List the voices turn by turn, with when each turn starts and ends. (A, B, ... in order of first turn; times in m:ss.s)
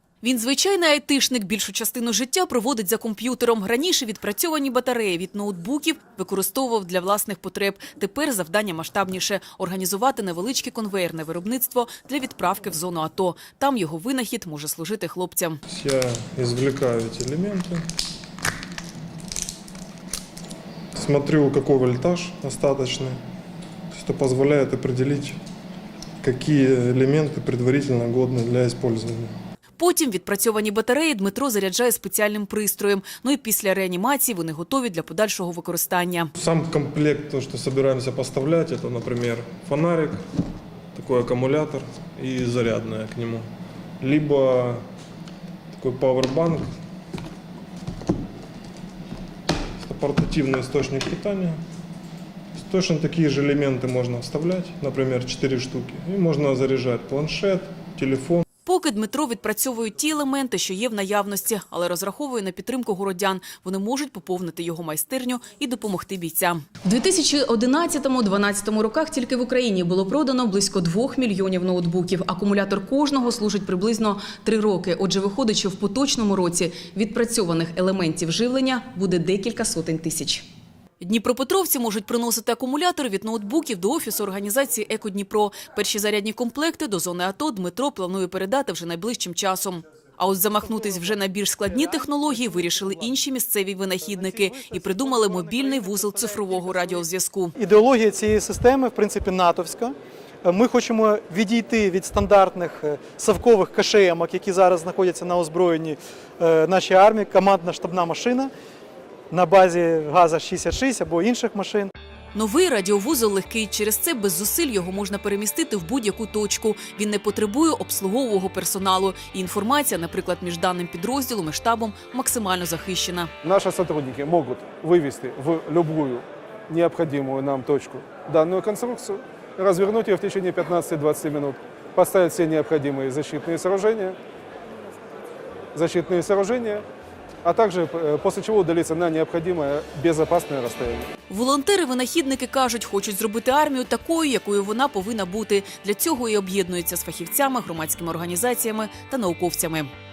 0:00.2-0:15.6 A
0:15.7-0:17.9 B
0:20.9-0:23.2 B
0:23.9-0:25.4 B
0:26.2-0:29.4 B
0:29.8-0:36.3 A
0:36.4-0:40.3 B
0:40.9-0:43.5 B
0:44.0-0:44.8 B
0:45.7-0:46.7 B
0:49.8-0:51.6 B
0:52.6-0:58.4 B
0:58.7-1:20.4 A
1:21.0-1:37.6 A
1:37.6-1:48.5 C
1:49.3-1:51.9 C
1:52.3-2:03.3 A
2:03.4-2:14.2 D
2:15.7-2:16.9 D
2:17.4-2:21.1 D
2:21.3-2:29.9 A